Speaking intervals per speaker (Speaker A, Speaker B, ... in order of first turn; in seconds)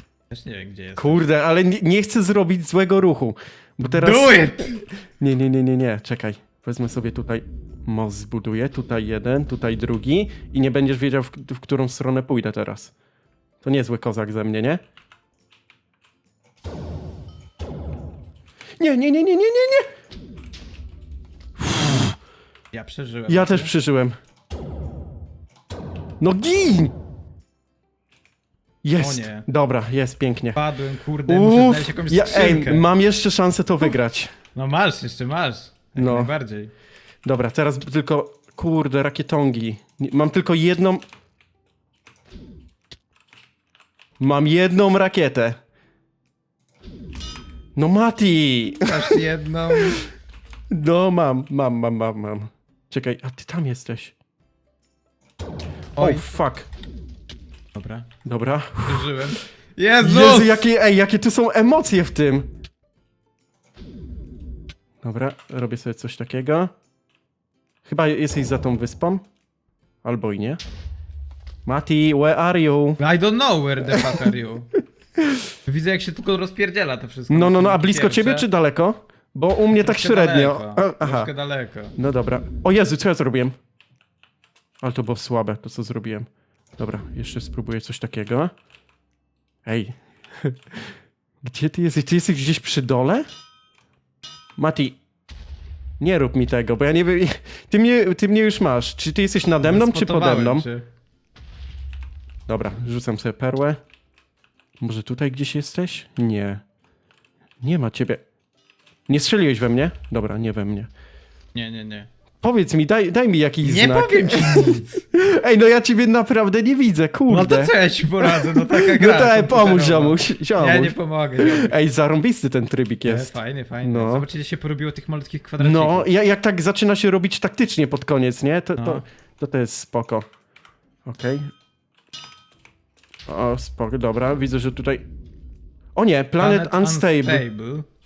Speaker A: 0.3-1.2, 3.9-4.8, 22.7-23.7, 29.0-29.4, 30.5-32.9, 34.5-36.7, 48.8-50.0, 56.0-56.3, 57.7-58.1, 58.9-60.6, 73.0-74.7, 75.7-78.5, 79.8-81.9, 99.5-100.8, 111.5-112.1, 113.6-115.0, 117.3-121.7, 123.0-126.1, 128.8-129.0, 136.4-137.8
Speaker B: 0.9-12.9, 13.6-14.8, 18.8-19.9, 21.6-22.1, 23.3-24.1, 26.2-26.9, 28.8-30.6, 31.3-34.3, 36.0-36.3, 37.2-41.0, 44.2-45.6, 47.8-49.1, 50.7-54.1, 56.0-56.7, 58.2-59.3, 60.0-62.5, 65.0-66.7, 67.8-69.2, 70.0-70.6, 71.7-73.0, 77.3-81.3, 82.0-83.5, 84.8-88.5, 89.6-93.2, 94.6-95.0, 96.0-100.7, 102.5-103.8, 104.8-106.6, 107.6-108.2, 109.1-110.9, 112.4-124.2, 125.6-130.2, 131.0-131.5, 133.3-135.0, 135.9-137.4